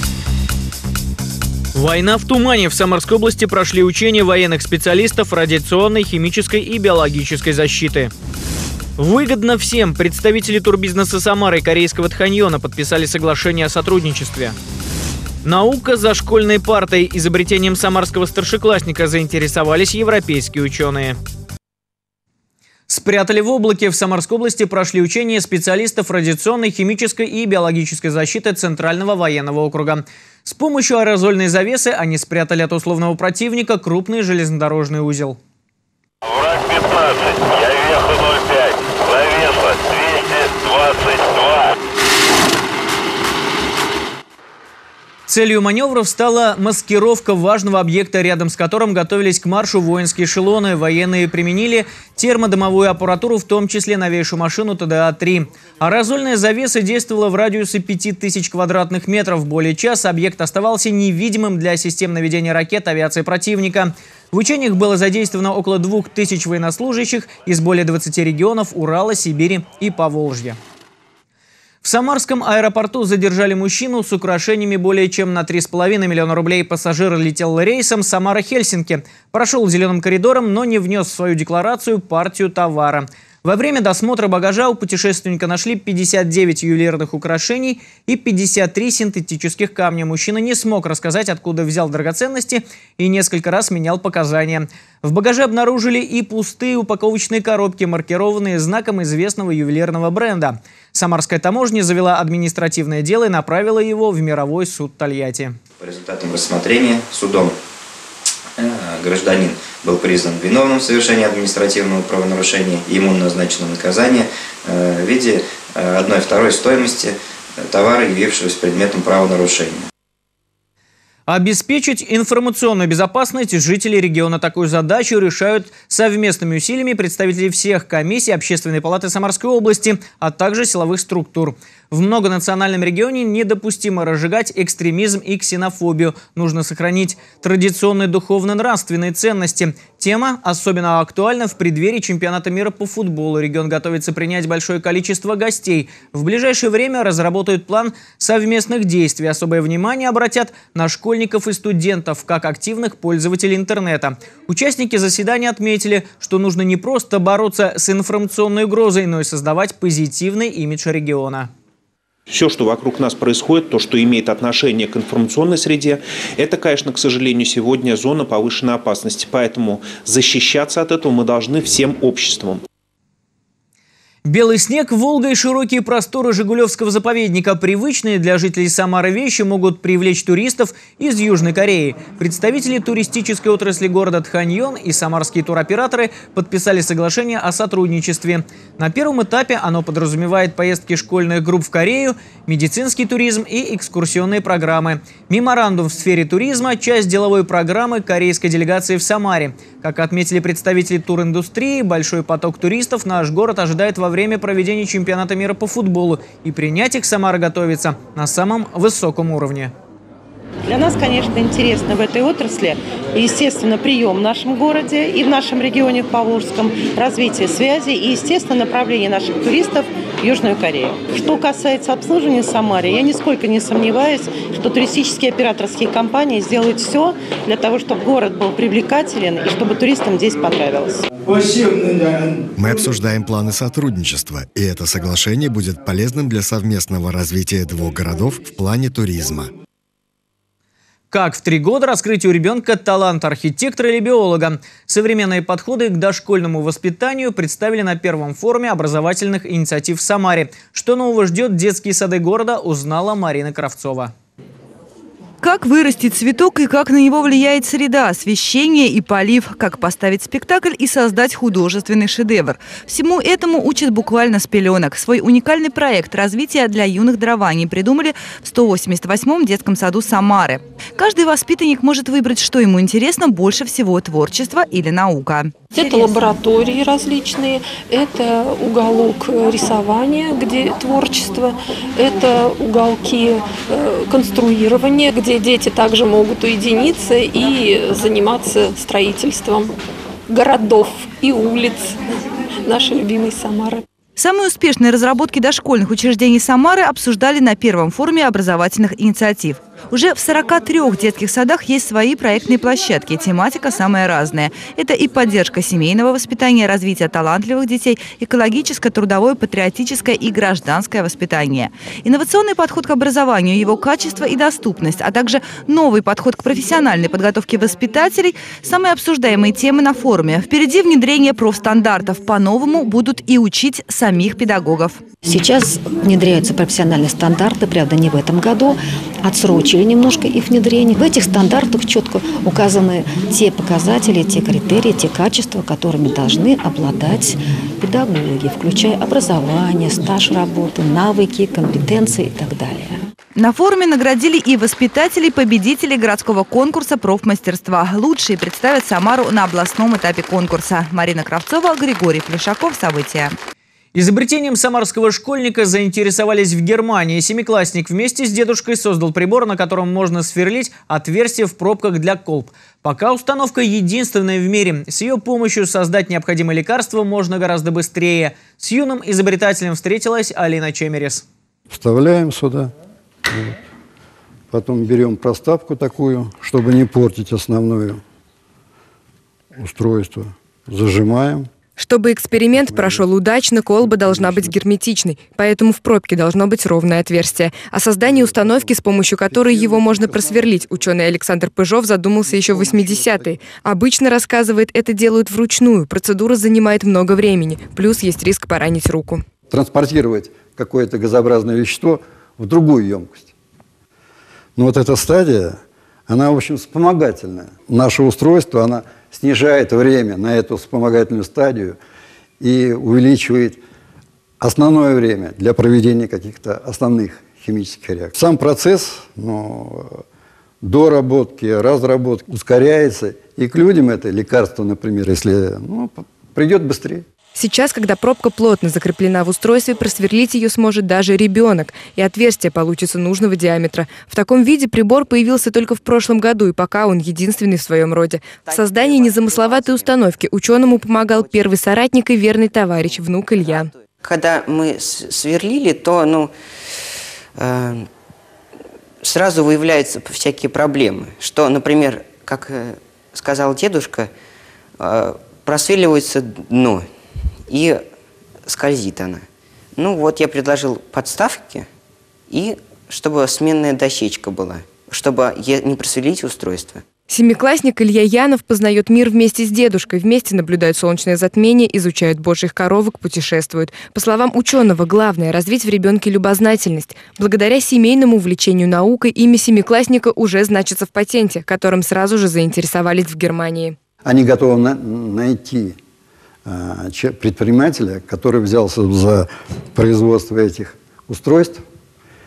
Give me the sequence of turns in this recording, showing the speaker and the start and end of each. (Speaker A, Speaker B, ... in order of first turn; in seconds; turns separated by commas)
Speaker A: 1.8-8.1, Speaker A: 9.0-14.6, Speaker A: 15.4-21.2, Speaker A: 22.9-35.4, Speaker A: 45.3-70.6, Speaker A: 71.8-105.6, Speaker B: 105.8-107.5, Speaker B: 108.6-119.8, Speaker A: 121.3-161.5, Speaker C: 162.3-172.6, Speaker A: 174.2-209.7, Speaker D: 210.7-231.0, Speaker E: 232.6-239.5, Speaker A: 241.1-254.1, Speaker F: 255.4-275.5, Speaker G: 275.7-289.7, Speaker G: 290.3-292.0, Speaker G: 292.6-293.8, Speaker F: 294.2-325.0, Speaker H: 325.2-343.0, Speaker F: 343.4-353.3, Speaker A: 353.9-371.2, Speaker I: 371.7-372.7, Speaker I: 373.3-373.6, Speaker I: 374.5-378.0, Speaker I: 379.6-381.5, Speaker J: 381.8-399.2, Speaker I: 382.6-383.1, Speaker I: 383.8-384.5, Speaker I: 388.1-388.7, Speaker I: 389.3-390.6, Speaker I: 392.4-393.3, Speaker I: 399.5-403.3, Speaker I: 404.6-411.8, Speaker I: 412.4-413.6, Speaker I: 414.4-420.0, Speaker I: 420.6-427.1, Speaker J: 427.4-443.7, Speaker K: 438.5-440.0, Speaker K: 440.8-441.4, Speaker K: 442.9-446.3, Speaker K: 447.4-447.9, Speaker K: 449.0-454.1, Speaker K: 454.8-456.9, Speaker K: 457.5-457.8, Speaker K: 458.5-459.2, Speaker K: 459.8-461.7, Speaker K: 462.3-466.8, Speaker J: 467.1-483.8, Speaker I: 484.1-485.8, Speaker I: 486.5-491.6